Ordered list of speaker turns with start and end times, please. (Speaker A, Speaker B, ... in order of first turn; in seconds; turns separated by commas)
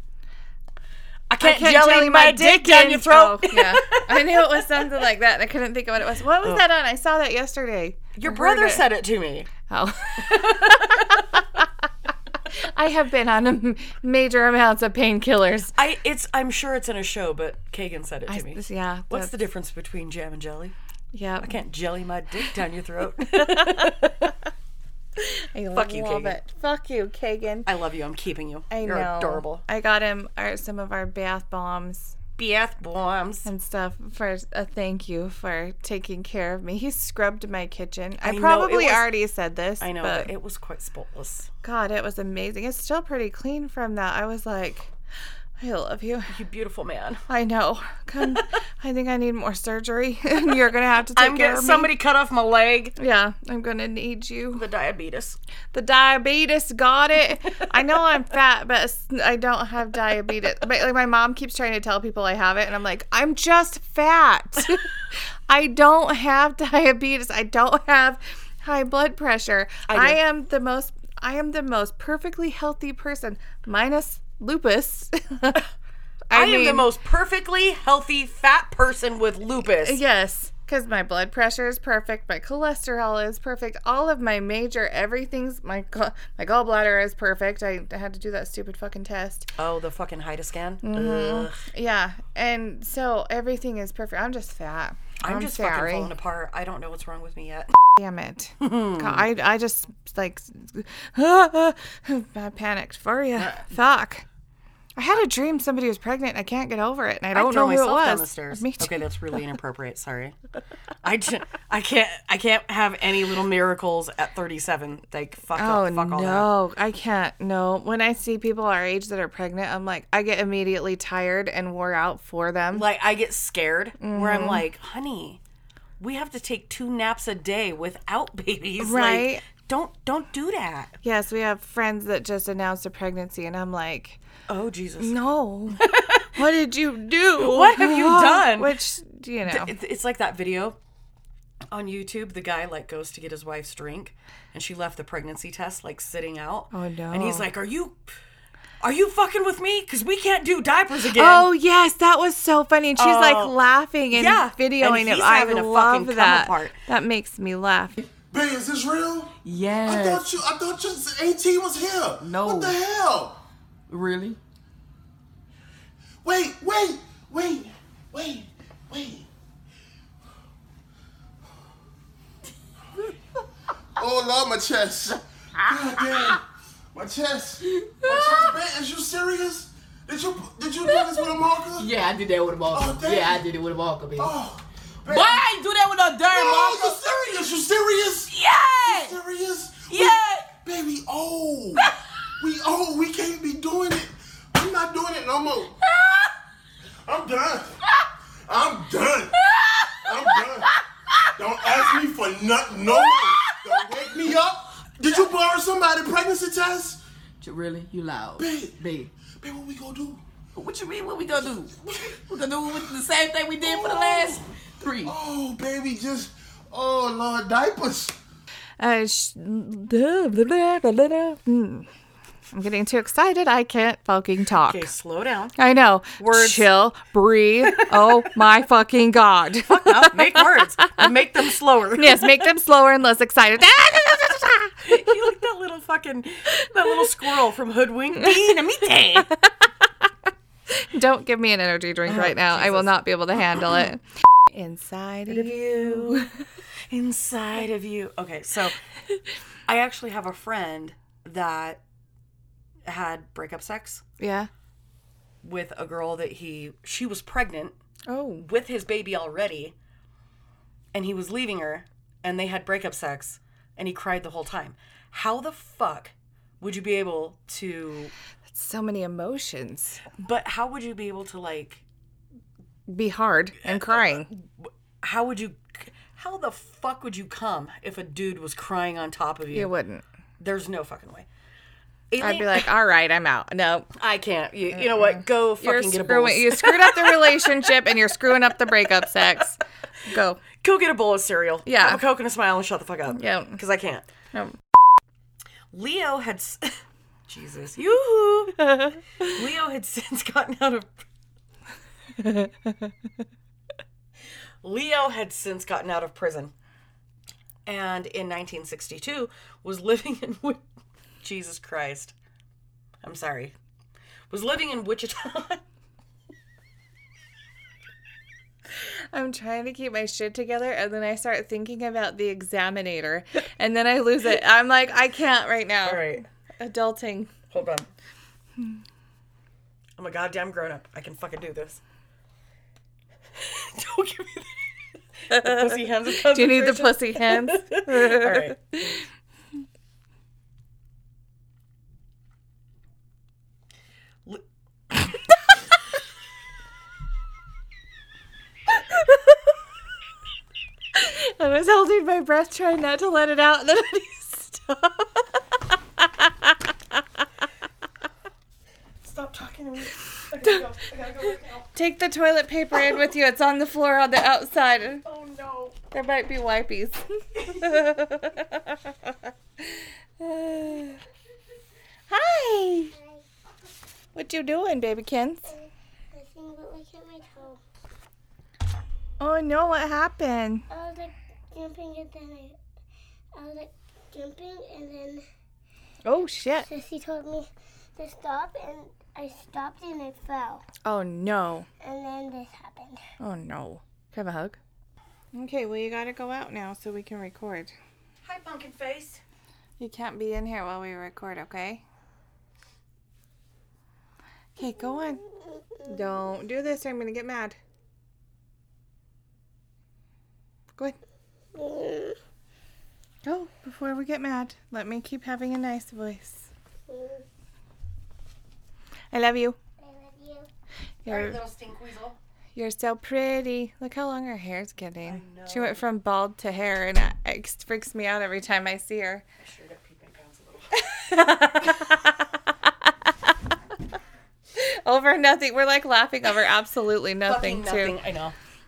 Speaker A: 1.3-4.6, Speaker B: 1.4-8.8, Speaker A: 8.2-9.5, Speaker B: 9.7-11.6, Speaker A: 10.2-11.2, Speaker B: 12.7-15.7, Speaker A: 15.8-20.7, Speaker B: 18.3-19.4, Speaker B: 21.1-21.6, Speaker A: 21.4-24.2, Speaker B: 23.4-24.3, Speaker B: 25.5-27.7, Speaker A: 25.7-26.4, Speaker A: 27.6-29.6, Speaker B: 28.7-32.1, Speaker A: 32.4-33.5, Speaker B: 33.4-40.3, Speaker A: 38.2-39.1, Speaker A: 39.8-41.5, Speaker B: 41.6-44.9, Speaker B: 45.6-46.3, Speaker A: 46.3-47.2, Speaker B: 47.3-51.9, Speaker A: 51.1-52.9, Speaker B: 53.0-54.6, Speaker A: 54.5-55.4, Speaker B: 55.7-75.6, Speaker A: 69.9-70.2, Speaker B: 76.3-76.9, Speaker A: 76.3-80.0, Speaker B: 79.6-89.5, Speaker A: 89.6-91.6, Speaker B: 90.8-96.1, Speaker A: 95.2-97.8, Speaker B: 98.0-104.2, Speaker A: 98.6-99.3, Speaker A: 103.4-103.7, Speaker B: 105.0-108.9, Speaker A: 107.3-110.3, Speaker A: 111.0-116.5, Speaker B: 115.5-122.8, Speaker A: 122.7-125.4, Speaker B: 124.0-124.6, Speaker A: 126.0-130.9, Speaker B: 128.8-129.4, Speaker B: 131.0-134.2, Speaker A: 134.5-135.1, Speaker B: 135.0-139.7, Speaker A: 135.7-136.3, Speaker A: 137.4-138.8, Speaker A: 139.4-140.8, Speaker A: 141.7-148.0, Speaker B: 146.7-147.4, Speaker A: 148.8-151.5, Speaker B: 151.1-158.0, Speaker A: 153.0-153.5, Speaker A: 154.1-156.8, Speaker C: 158.3-159.3, Speaker D: 159.4-160.4, Speaker C: 159.8-163.4, Speaker D: 162.2-162.8, Speaker D: 163.9-164.4, Speaker C: 166.2-169.3, Speaker C: 174.0-181.9, Speaker D: 175.7-176.3, Speaker D: 177.8-178.6, Speaker D: 181.8-184.3, Speaker C: 182.7-183.4, Speaker C: 184.1-185.4, Speaker D: 185.0-187.0, Speaker C: 186.3-191.9, Speaker D: 188.2-189.2, Speaker D: 189.9-190.6, Speaker C: 192.4-195.7, Speaker C: 197.1-197.8, Speaker C: 198.5-199.3, Speaker D: 199.6-200.4, Speaker C: 200.0-200.7, Speaker C: 201.4-207.0, Speaker D: 201.6-202.0, Speaker D: 203.0-204.4, Speaker D: 207.4-209.1, Speaker C: 208.4-210.2, Speaker D: 210.5-215.2, Speaker C: 212.6-212.9, Speaker C: 213.6-214.4, Speaker C: 215.0-218.2, Speaker B: 218.8-221.9, Speaker B: 222.5-224.9, Speaker A: 224.6-225.6, Speaker B: 225.6-230.6, Speaker A: 226.2-226.7, Speaker A: 229.7-232.5, Speaker B: 231.9-234.8, Speaker A: 234.8-239.3, Speaker B: 240.9-246.3, Speaker A: 242.1-242.9, Speaker A: 245.3-246.3, Speaker A: 246.9-248.8, Speaker A: 249.7-251.8, Speaker A: 252.8-254.0, Speaker B: 254.2-254.5, Speaker A: 255.4-257.7, Speaker B: 258.1-258.5, Speaker A: 258.4-259.7, Speaker A: 260.9-268.1, Speaker B: 268.5-270.1, Speaker A: 270.1-271.8, Speaker B: 272.9-274.3, Speaker A: 273.6-279.7, Speaker B: 279.5-280.0, Speaker A: 280.4-281.2, Speaker A: 282.1-282.7, Speaker B: 282.2-283.9, Speaker A: 284.0-287.5, Speaker B: 284.7-290.4, Speaker A: 290.6-294.1, Speaker B: 291.6-292.0, Speaker B: 293.1-293.6, Speaker B: 294.3-294.6, Speaker A: 295.7-296.7, Speaker A: 297.3-300.9, Speaker B: 298.7-299.0, Speaker B: 302.2-302.7, Speaker A: 304.6-306.5, Speaker A: 307.6-310.6, Speaker A: 311.2-312.1, Speaker A: 313.0-313.5, Speaker A: 314.3-315.6, Speaker B: 319.1-327.3, Speaker A: 325.8-326.2, Speaker A: 327.5-327.9, Speaker A: 330.0-331.8, Speaker A: 333.4-338.6, Speaker B: 335.3-335.6, Speaker B: 336.3-339.0, Speaker B: 350.9-355.2, Speaker B: 356.2-356.5, Speaker A: 359.0-361.7, Speaker B: 361.7-365.0, Speaker A: 365.0-365.8, Speaker B: 365.9-369.1, Speaker B: 369.7-371.0, Speaker B: 372.1-372.9, Speaker E: 373.0-373.2, Speaker B: 374.1-375.5, Speaker E: 375.6-377.6, Speaker B: 379.2-380.6, Speaker E: 380.7-382.6, Speaker E: 383.3-385.2, Speaker B: 386.0-386.7, Speaker E: 386.7-390.6, Speaker B: 390.8-391.7, Speaker E: 391.8-393.0, Speaker B: 393.2-394.6, Speaker B: 395.3-397.7, Speaker A: 398.2-399.2, Speaker B: 399.8-401.8, Speaker B: 404.6-405.2, Speaker B: 405.9-407.6, Speaker E: 411.5-412.2, Speaker B: 413.2-416.5, Speaker E: 416.9-417.2, Speaker B: 419.1-419.6, Speaker E: 419.8-420.5, Speaker B: 421.0-421.4, Speaker A: 421.1-422.2, Speaker B: 422.5-429.2, Speaker A: 425.0-425.8, Speaker A: 429.4-430.8, Speaker B: 430.8-432.4, Speaker B: 434.5-438.0, Speaker A: 437.2-438.4